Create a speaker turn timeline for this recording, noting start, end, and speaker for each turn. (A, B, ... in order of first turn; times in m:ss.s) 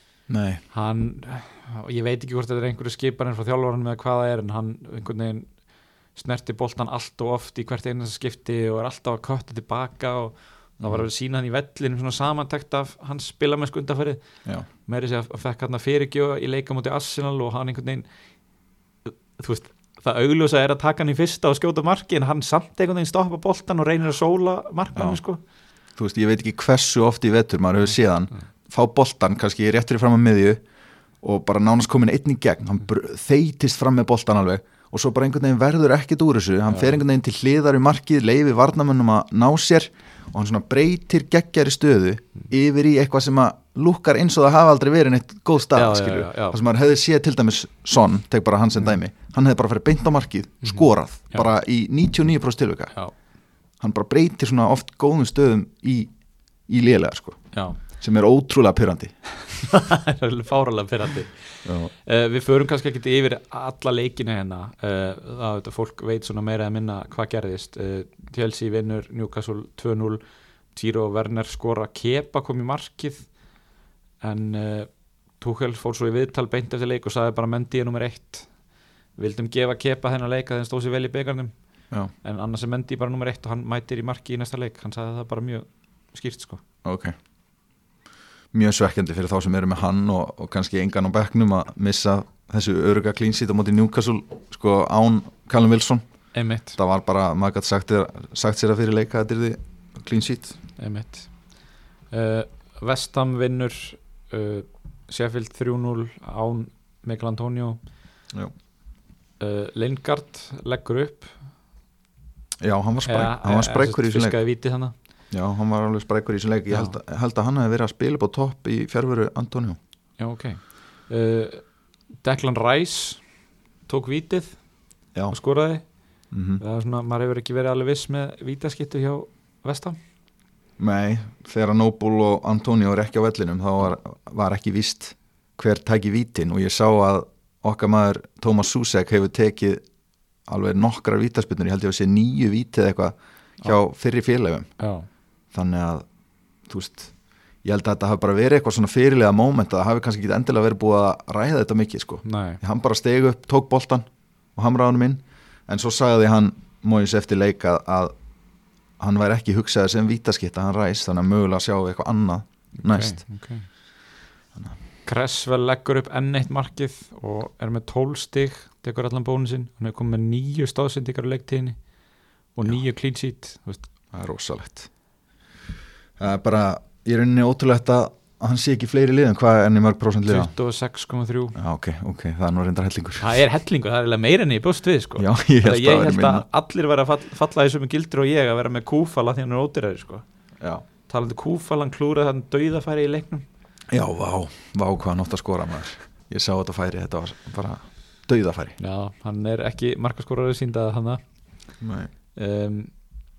0:00.3-0:00.6 A
0:00.7-0:05.5 B
0:06.1-0:14.2 B
0:14.8-0:18.0 B
0:19.1-0:25.4 B
0:26.0-0:30.6 A
0:31.2-0:52.9 A
0:36.7-0:37.0 B
0:45.7-0:46.6 B
0:50.6-0:51.4 B
0:53.8-0:56.1 A
0:56.7-0:57.4 A
0:57.5-0:57.8 B
0:57.9-0:59.1 A
0:59.6-1:10.2 B
1:01.6-1:01.9 A
1:10.7-1:13.3 B
1:14.2-1:18.5 B
1:19.2-1:21.5 B
1:22.2-1:26.6 B
1:26.8-1:27.1 A
1:28.5-1:36.0 A
1:36.3-1:36.8 B
1:36.8-1:40.6 A
1:40.8-1:41.3 B
1:42.1-1:47.8 B
1:49.4-1:51.3 B
1:52.6-1:54.4 A
1:53.0-1:54.9 B
1:55.3-1:59.8 A
1:56.7-1:57.0 B
2:00.2-2:01.6 B
2:02.2-2:03.2 B
2:03.9-2:04.6 B
2:05.3-2:05.8 B
2:06.3-2:06.6 A
2:06.6-2:10.0 B
2:10.8-2:19.8 A
2:20.5-2:24.7 A
2:24.8-2:25.1 B
2:25.5-2:26.0 A
2:26.7-2:27.1 A
2:27.6-2:38.1 A
2:32.2-2:32.6 B
2:39.0-2:43.2 A
2:42.8-2:43.7 B
2:45.0-2:51.8 B
2:52.5-2:53.8 B
2:54.1-2:54.9 A
2:56.2-3:00.5 A
3:00.3-3:01.6 B
3:01.5-3:03.3 A
3:03.2-3:10.2 B
3:05.2-3:06.4 A
3:11.1-3:13.4 B
3:13.9-3:18.8 A
3:18.8-3:21.2 B
3:21.8-3:22.1 A
3:22.4-3:22.9 B